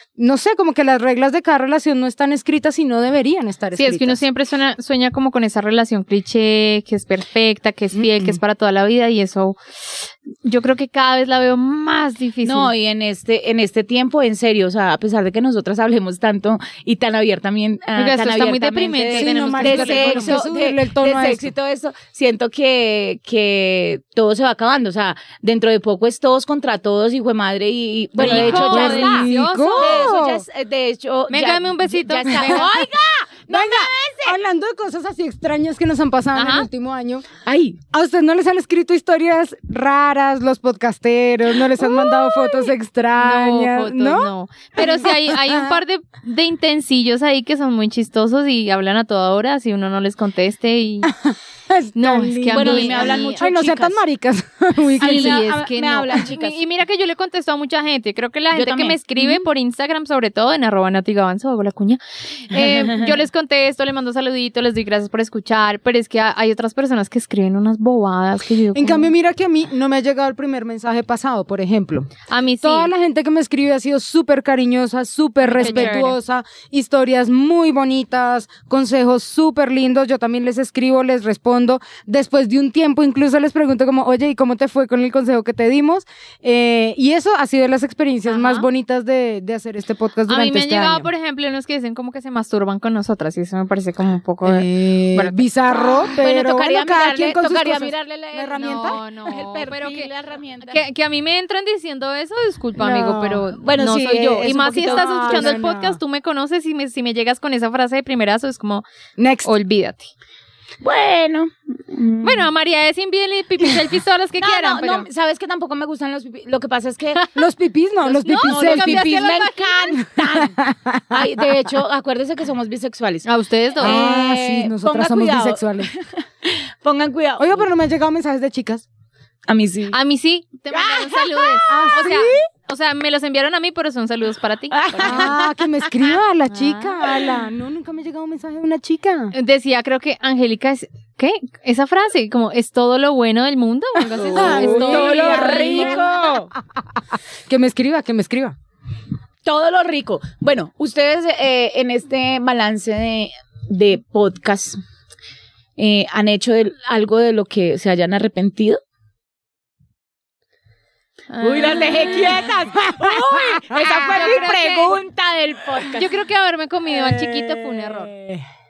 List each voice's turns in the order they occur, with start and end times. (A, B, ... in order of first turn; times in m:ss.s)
0:00.2-0:04.2 A
0:03.7-0:12.7 B
0:08.0-0:08.4 A
0:12.4-0:34.4 C
0:18.0-0:20.5 B
0:19.1-0:21.5 A
0:28.2-0:30.2 B
0:28.2-0:30.4 A
0:31.3-0:32.7 B
0:32.4-0:32.8 A
0:33.5-0:37.3 A
0:36.4-0:36.7 B
0:37.4-0:37.8 C
0:37.9-0:45.8 A
0:41.8-0:51.1 B
0:51.0-0:55.6 A
0:52.0-0:53.4 B
0:52.5-0:54.0 C
0:55.0-0:56.6 C
0:55.0-1:09.1 B
0:58.5-0:59.0 C
1:02.6-1:03.2 C
1:08.7-1:12.1 A
1:12.3-1:12.9 B
1:12.6-1:31.1 A
1:15.5-1:16.2 B
1:15.6-1:16.0 C
1:28.3-1:28.7 B
1:30.3-1:35.9 B
1:34.4-1:39.0 A
1:36.2-1:40.8 C
1:38.6-1:40.1 B
1:40.7-1:48.9 B
1:42.8-1:43.4 A
1:43.6-1:45.6 C
1:44.7-1:46.0 A
1:49.2-1:49.5 A
1:49.4-1:50.1 B
1:50.8-1:52.5 C
1:52.2-1:55.1 B
1:54.4-1:57.2 C
1:57.4-1:59.2 A
1:58.1-2:00.0 B
1:58.2-2:00.6 C
2:00.2-2:01.4 A
2:01.1-2:03.3 C
2:03.2-2:04.0 B
2:03.8-2:07.6 C
2:03.8-2:05.9 A
2:07.4-2:08.9 A
2:09.5-2:10.0 C
2:09.9-2:15.3 B
2:10.7-2:11.6 C
2:11.7-2:12.4 A
2:14.7-2:15.5 C
2:15.0-2:19.3 A
2:16.5-2:17.0 B
2:19.3-2:26.1 B
2:24.0-2:28.6 A
2:24.1-2:26.5 C
2:29.4-2:34.8 C
2:35.8-2:38.8 C
2:41.3-2:42.4 B
2:41.4-2:46.1 C
2:42.3-2:44.5 A
2:43.8-2:45.0 B
2:45.9-2:48.1 B
2:46.9-2:48.4 A